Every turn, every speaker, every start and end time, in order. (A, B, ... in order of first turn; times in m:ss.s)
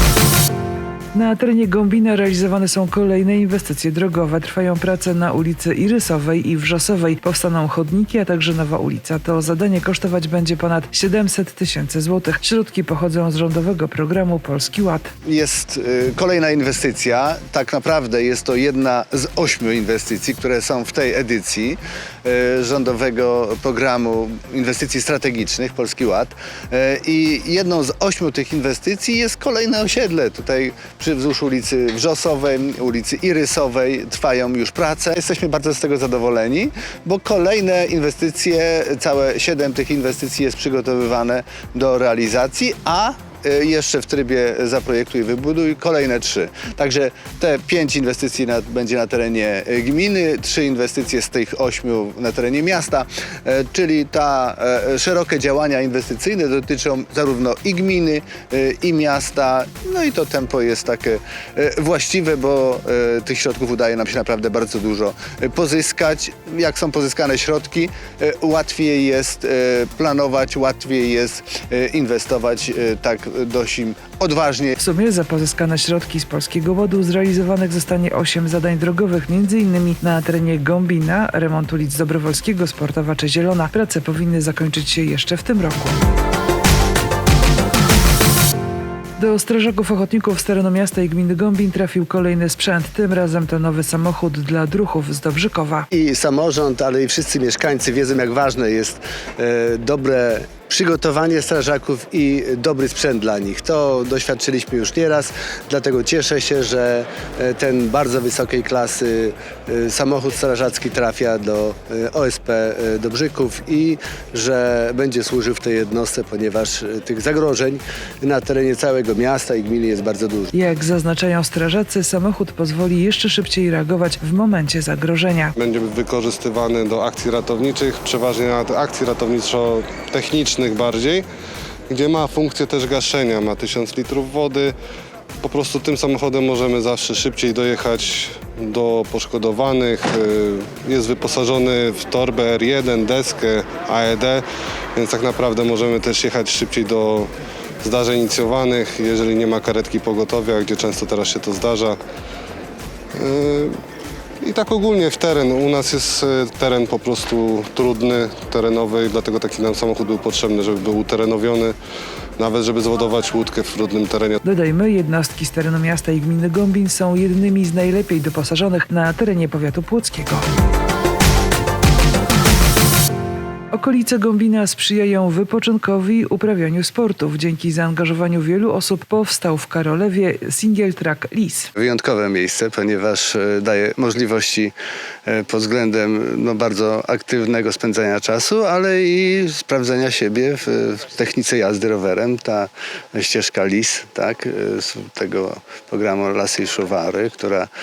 0:01.1-0:15.1 A
0:15.2-1:14.8 B
1:14.8-1:26.0 A
1:29.2-1:35.9 A
1:35.9-2:00.5 B
2:00.5-2:05.6 A
2:05.6-2:11.2 C
2:11.9-2:14.7 C
2:15.4-2:24.4 C
2:25.0-2:27.3 C
2:27.8-2:32.0 C
2:33.2-2:33.7 C
2:34.4-2:41.8 C
2:42.4-2:44.4 C
2:44.4-2:50.4 A
2:53.7-3:01.7 A
3:01.8-3:04.7 B
3:05.3-3:17.7 B